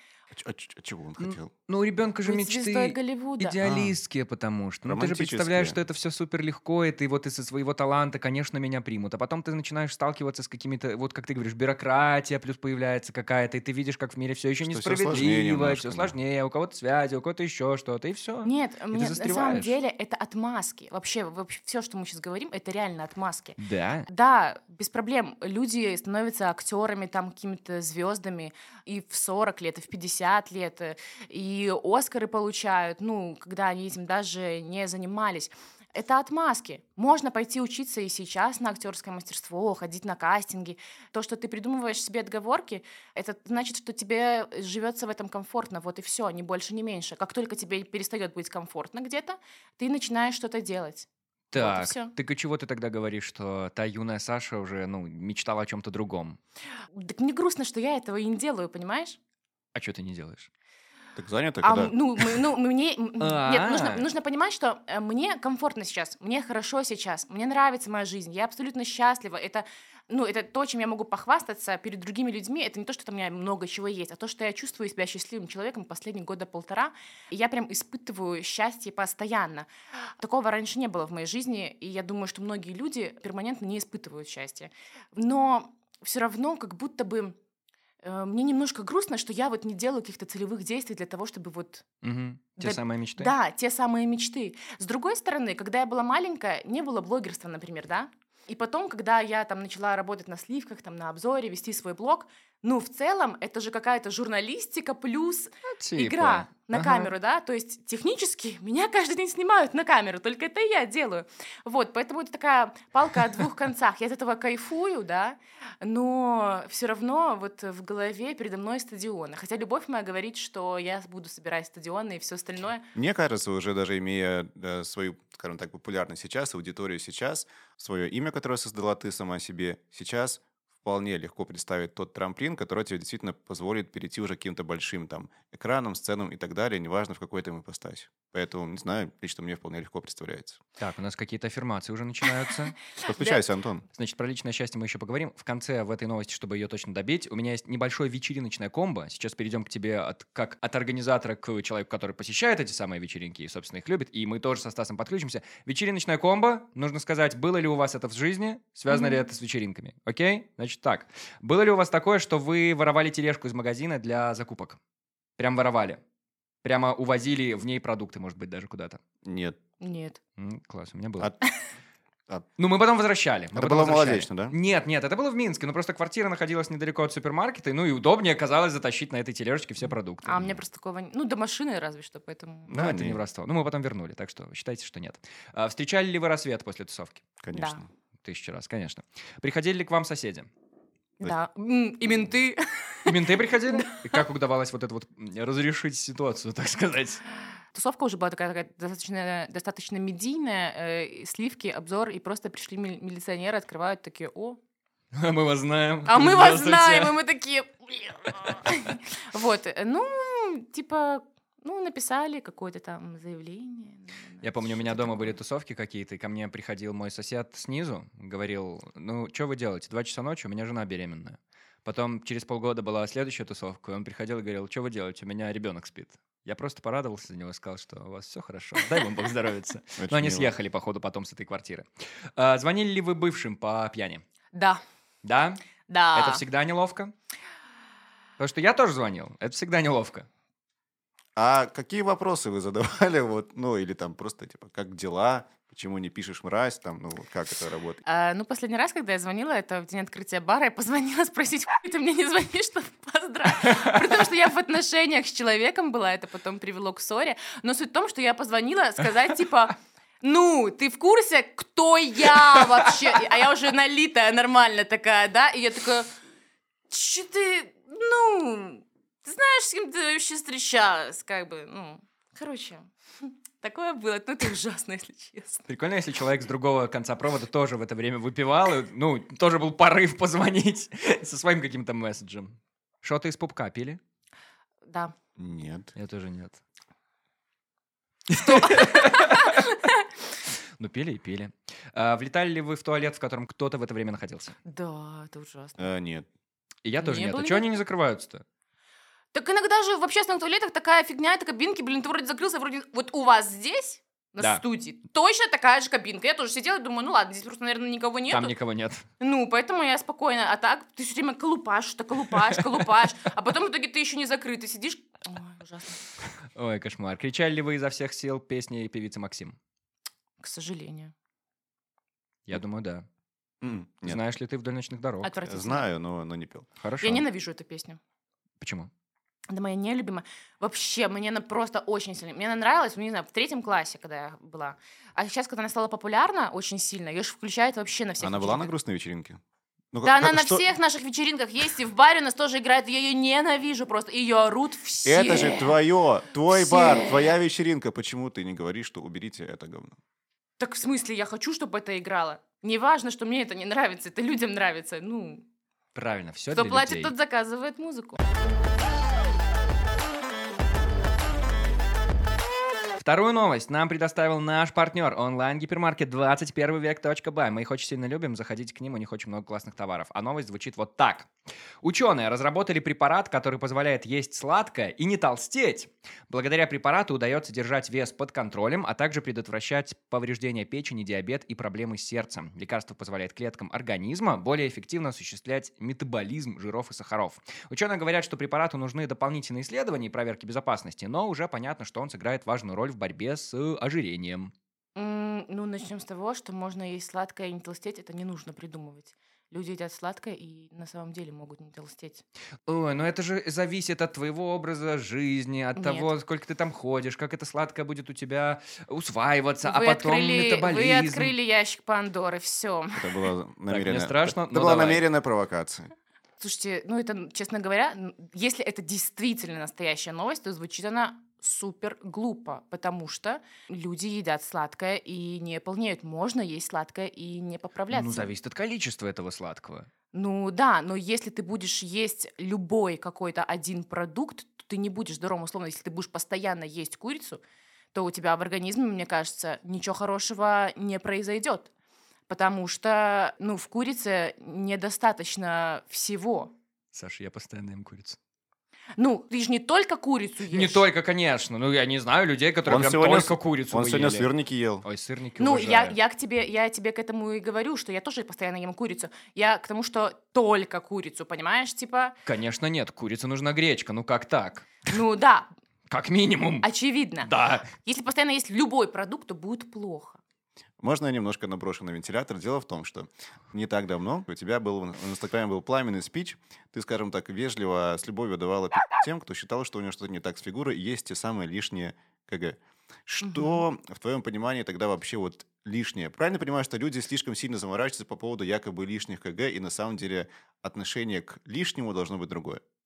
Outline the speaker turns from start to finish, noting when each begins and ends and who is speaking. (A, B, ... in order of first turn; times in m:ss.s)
0:00.3-0:01.5 A
0:01.2-0:19.7 B
0:02.2-0:03.6 C
0:03.6-0:04.0 A
0:04.8-0:05.8 A
0:14.6-0:16.2 A
0:18.4-0:52.1 C
0:23.6-0:24.1 B
0:51.5-0:56.4 B
0:57.0-0:59.2 C
0:59.8-1:00.5 B
1:01.2-1:01.9 A
1:01.6-1:19.7 C
1:03.2-1:04.0 B
1:20.2-1:27.4 C
1:28.0-1:31.8 C
1:32.0-1:33.3 B
1:32.6-2:02.9 C
1:45.8-1:47.1 B
2:02.9-2:20.6 A
2:20.8-2:22.8 B
2:23.0-2:23.8 A
2:24.0-2:44.8 B
2:38.9-2:39.2 C
2:45.4-2:46.0 B
2:46.6-2:49.0 B
2:49.2-2:49.6 A
2:49.8-2:50.2 C
2:50.4-2:51.3 B
2:52.6-3:00.6 B
2:53.6-2:54.6 A
3:00.2-3:02.7 C
3:02.7-3:03.2 A
3:02.7-3:07.2 B
3:07.4-3:07.9 A
3:07.5-3:07.8 C
3:08.2-3:10.5 B
3:11.2-3:14.2 C
3:13.1-3:17.2 B
3:17.7-3:24.6 C
3:25.1-3:27.2 B
3:26.1-3:35.4 C
3:34.4-3:54.2 B
3:50.0-3:50.5 A
3:54.5-3:54.8 C
3:55.2-3:57.1 B
3:55.9-3:56.4 C
3:58.4-4:00.3 B
4:01.4-4:08.0 A
4:08.0-4:26.1 C
4:26.9-4:35.6 C
4:35.7-4:44.0 B
4:44.9-4:45.2 C
4:45.4-4:45.9 A
4:46.0-4:46.6 B
4:48.3-4:49.8 B
4:48.4-4:49.9 C
4:50.8-4:54.6 B
4:54.7-4:55.9 C
4:55.8-4:56.3 A
4:56.8-4:58.4 B
4:57.0-4:57.7 C
4:59.3-5:08.5 C
5:08.3-5:09.0 B
5:09.2-5:16.0 C
5:16.6-5:19.6 B
5:20.4-5:21.1 C
5:22.5-5:23.0 B
5:23.6-5:24.2 A
5:24.0-5:25.3 B
5:25.2-5:25.9 C
5:25.5-5:26.7 A
5:26.8-5:27.2 B
5:27.0-5:28.0 C
5:28.6-5:28.9 B
5:29.5-5:38.7 C
5:38.2-5:39.4 A
5:39.9-5:40.7 A
5:40.0-5:45.8 C
5:45.1-5:50.0 A
5:46.5-5:47.2 C
5:50.6-5:55.4 C
5:56.0-5:57.1 B
5:56.5-5:58.2 C
6:03.0-6:11.3 B
6:11.8-6:34.5 B
6:35.0-6:42.2 C
6:42.7-6:51.3 B
6:45.8-6:46.1 C
6:49.6-6:53.3 C
6:53.0-6:55.9 A
6:53.7-6:55.0 B
6:56.4-7:08.3 C
7:07.9-7:09.9 B
7:10.1-7:17.4 C
7:17.9-7:21.7 C
7:22.3-7:26.5 C
7:26.9-7:28.2 B
7:29.0-7:30.9 C
7:30.5-7:34.3 B
7:32.7-7:34.8 A
7:34.8-7:36.0 B
7:35.4-7:42.2 C
7:42.3-7:44.8 B
7:44.9-7:45.5 C
7:45.9-7:46.7 B
7:46.6-7:50.2 C
7:47.2-7:47.7 B
7:50.8-8:12.6 A
8:03.2-8:03.6 C